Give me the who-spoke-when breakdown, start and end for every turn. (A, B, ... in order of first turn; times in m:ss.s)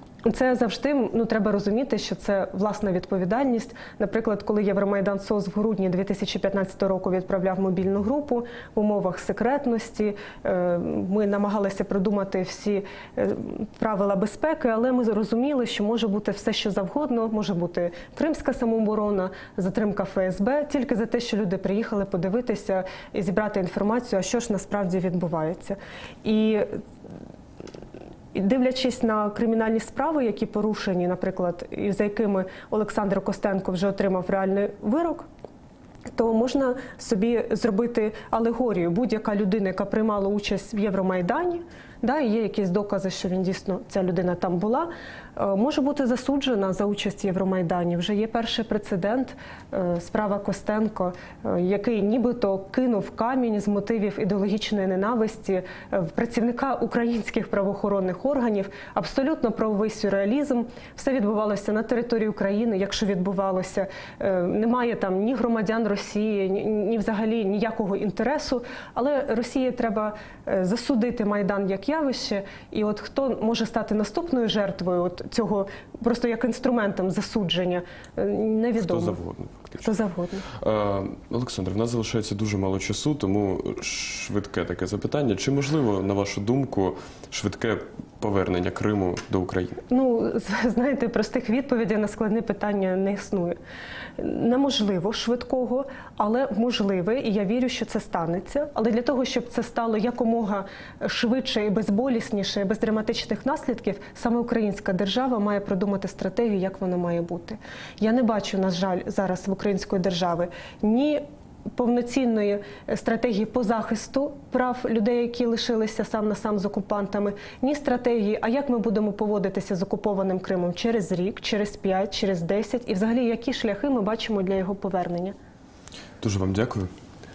0:00.2-0:26.7 A
0:28.3-0:35.3 A
0:36.1-1:19.2 A
1:18.8-1:19.9 B
1:19.8-1:20.5 A
1:20.5-1:29.8 B
1:29.9-1:33.6 A
1:34.2-1:51.2 A
1:51.8-2:05.4 A
2:06.2-2:06.9 B